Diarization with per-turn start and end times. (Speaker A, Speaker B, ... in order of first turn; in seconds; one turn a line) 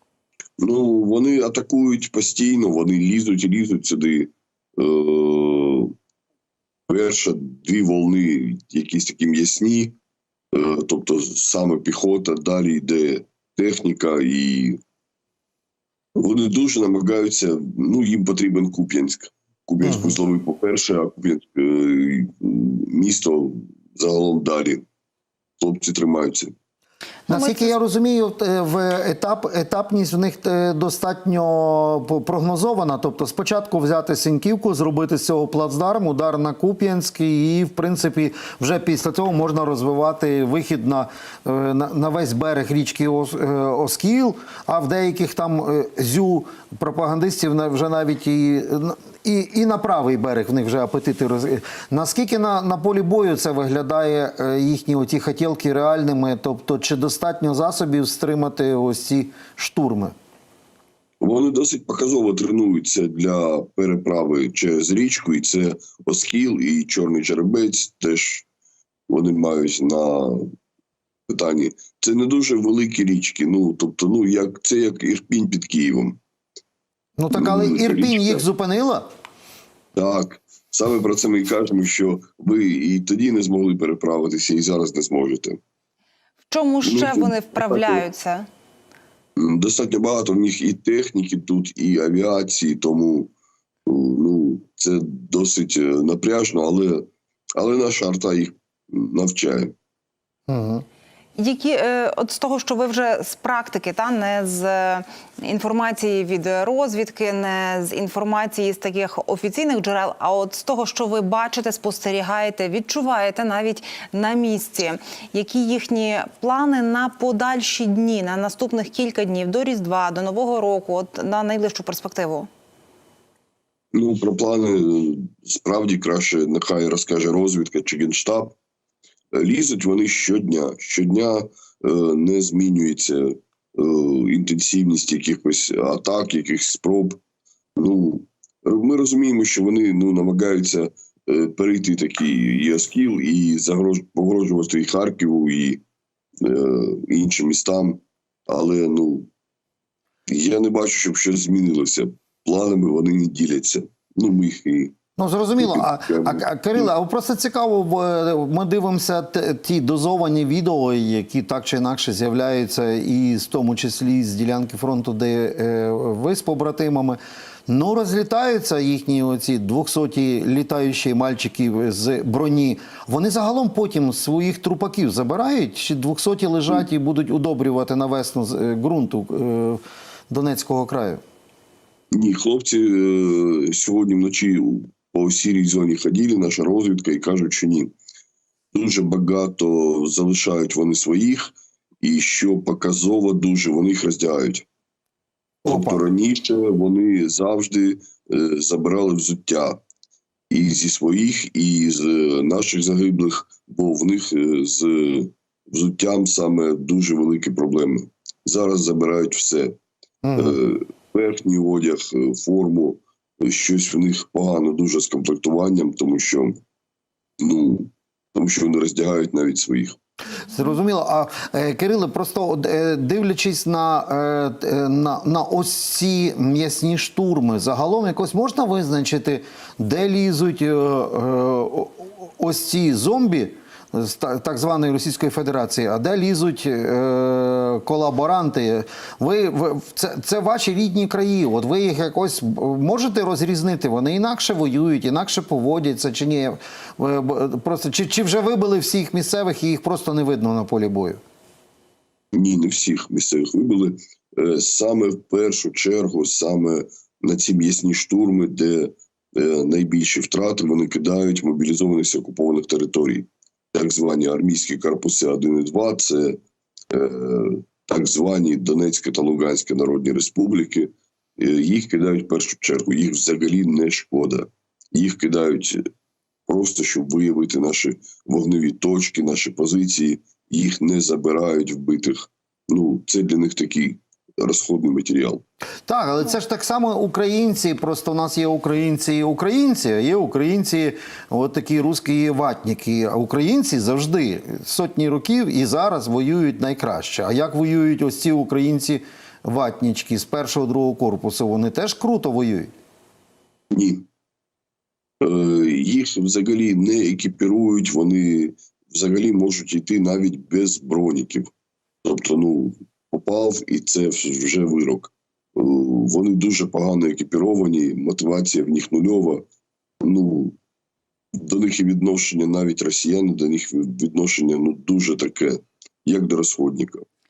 Speaker A: 0.6-5.9
Speaker A: 6.9-9.9
Speaker A: 10.5-14.8
Speaker A: 16.2-24.8
Speaker B: 19.8-20.1
Speaker A: 25.6-26.5
Speaker C: 27.3-27.7
Speaker B: 27.3-60.1
Speaker A: 61.2-68.5
Speaker A: 69.1-70.4
Speaker A: 71.3-76.2
Speaker B: 77.2-79.1
Speaker A: 77.3-78.4
Speaker A: 79.9-85.6
Speaker C: 86.5-88.4
Speaker A: 86.8-88.0
Speaker A: 89.4-93.3
Speaker A: 93.8-99.7
Speaker B: 100.5-100.8
Speaker C: 101.4-122.5
Speaker A: 123.9-128.5
Speaker A: 129.3-137.2
Speaker A: 137.8-145.8
Speaker A: 146.4-149.3
Speaker A: 150.3-154.9
Speaker B: 155.2-181.2
Speaker A: 155.6-156.9
Speaker A: 182.1-187.9
Speaker A: 188.7-194.7
Speaker A: 195.6-199.8
Speaker B: 195.6-196.0
Speaker A: 200.5-209.8
Speaker B: 210.2-210.6
Speaker A: 210.3-216.6
Speaker A: 217.4-219.9
Speaker B: 220.5-251.2
Speaker A: 252.3-266.4
Speaker A: 266.9-275.8
Speaker A: 276.5-285.4
Speaker B: 285.9-302.7
Speaker A: 303.7-304.0
Speaker A: 305.2-311.5
Speaker A: 312.0-319.4
Speaker A: 320.0-320.6
Speaker A: 321.4-327.0